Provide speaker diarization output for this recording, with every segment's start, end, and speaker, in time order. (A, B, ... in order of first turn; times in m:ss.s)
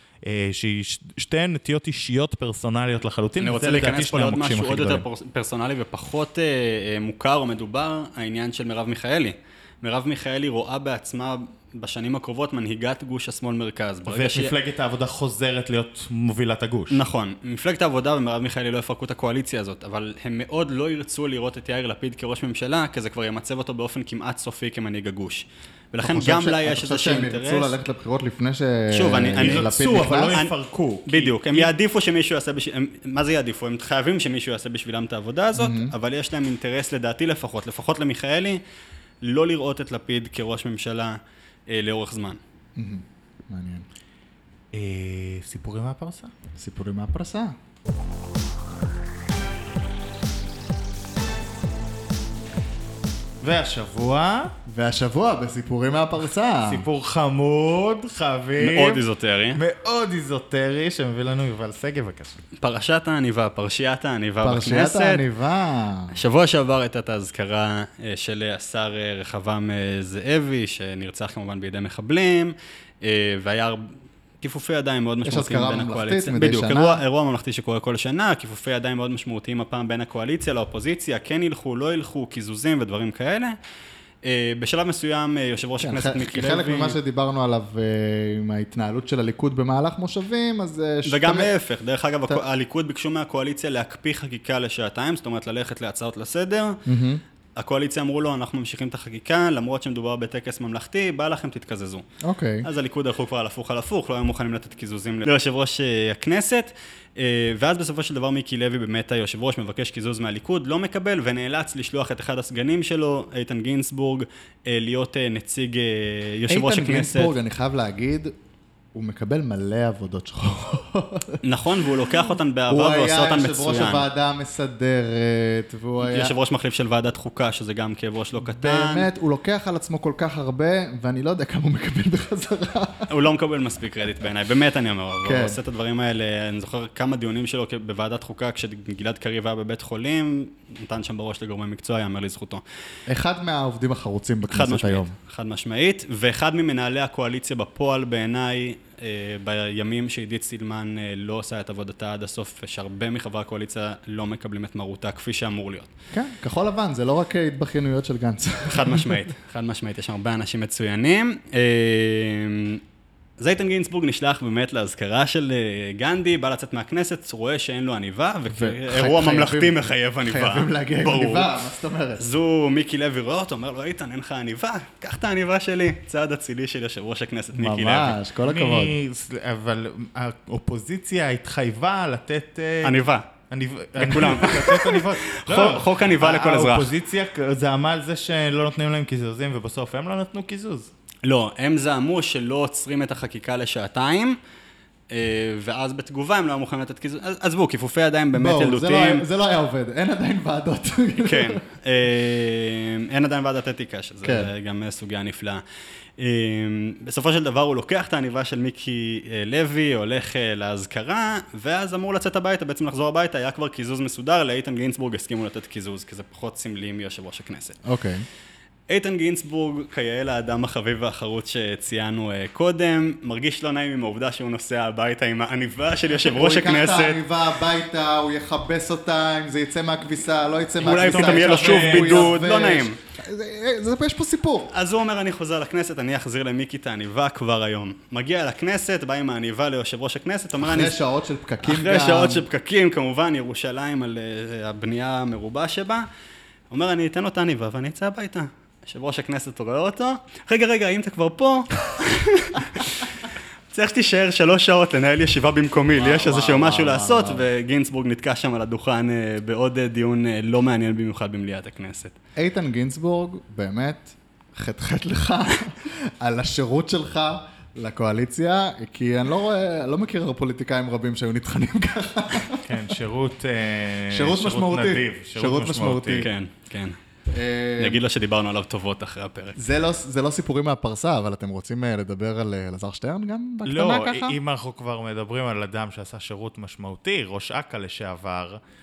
0:00.2-0:05.0 A
0:03.4-0:14.5 B
0:14.1-0:17.0 A
0:16.9-0:27.8 B
0:26.0-0:30.4 C
0:28.9-0:29.7 B
0:29.4-0:31.7 A
0:31.1-0:38.6 B
0:35.6-0:35.9 C
0:39.2-0:42.4 B
0:42.8-0:43.9 C
0:44.7-0:46.3 A
0:46.6-0:47.6 C
0:53.4-0:54.5 A
0:54.7-0:56.9 C
0:56.7-0:59.0 A
0:58.6-0:59.6 B
0:59.6-1:02.4 A
1:02.6-1:05.2 B
1:04.4-1:06.2 C
1:06.1-1:23.6 B
1:15.2-1:17.0 C
1:24.2-1:27.0 B
1:25.8-1:31.5 C
1:31.0-1:36.8 B
1:36.9-1:37.2 C
1:37.6-1:42.0 B
1:42.2-1:42.7 C
1:42.6-1:57.3 B
1:56.5-1:58.3 C
1:58.9-2:01.4 C
2:01.4-2:04.1 B
2:02.7-2:06.4 C
2:06.0-2:09.1 B
2:08.4-2:13.1 C
2:13.1-2:22.6 B
2:15.2-2:15.6 C
2:23.1-2:25.2 C
2:24.5-2:35.9 B
2:36.1-2:39.2 C
2:38.7-2:42.8 B
2:43.4-2:51.5 B
2:48.5-2:52.2 C
2:52.2-2:58.2 B
2:57.6-2:58.9 C
2:58.4-3:10.9 A
3:02.8-3:03.3 B
3:04.0-3:06.9 B
3:11.2-3:14.4 B
3:15.1-3:19.2 B
3:18.3-3:21.6 C
3:21.2-3:25.6 B
3:24.2-3:24.5 C
3:26.2-3:37.8 B
3:37.8-3:38.2 C
3:38.9-3:47.2 B
3:46.2-3:54.7 C
3:50.8-3:53.0 B
3:51.0-3:52.3 A
3:54.7-4:01.0 B
4:00.6-4:02.5 C
4:01.6-4:06.0 B
4:06.7-4:22.2 B
4:16.0-4:17.4 C
4:22.4-4:32.6 C
4:32.6-4:36.2 A
4:34.1-4:36.3 C
4:36.1-4:37.0 B
4:37.3-4:38.0 C
4:37.8-4:39.6 B
4:39.6-4:44.4 C
4:43.6-4:48.6 A